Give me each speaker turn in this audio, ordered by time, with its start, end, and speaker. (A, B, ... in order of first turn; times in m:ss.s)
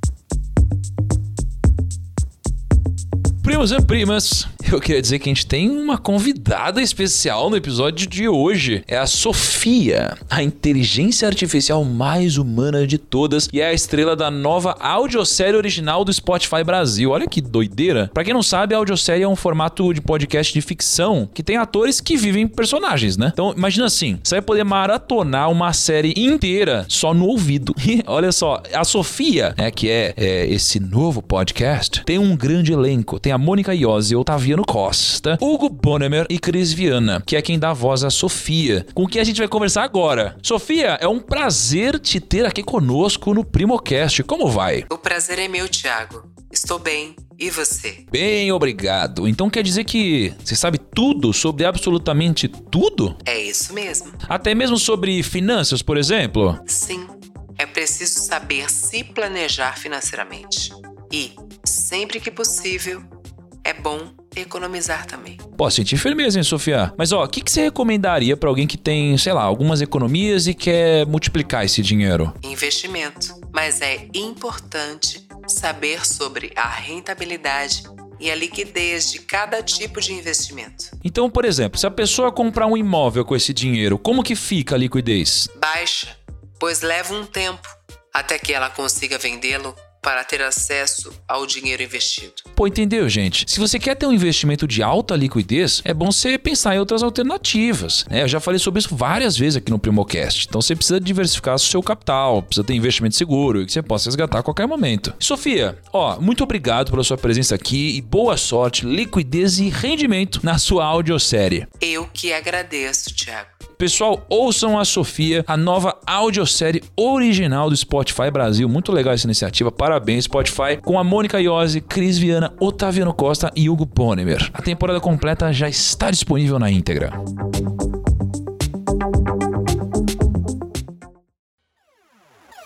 0:03.4-0:44.9 A
0:44.9-0:48.0 B
0:48.1-0:53.2 A
0:53.2-0:54.2 B
0:54.3-0:56.6 A
0:56.7-1:03.1 B
1:03.6-1:05.4 B
1:05.6-1:12.4 A
1:12.4-1:20.9 B
1:21.0-1:25.5 A
1:25.5-1:32.4 B
1:32.6-1:51.7 A
1:51.8-1:53.6 B
1:53.8-2:07.2 A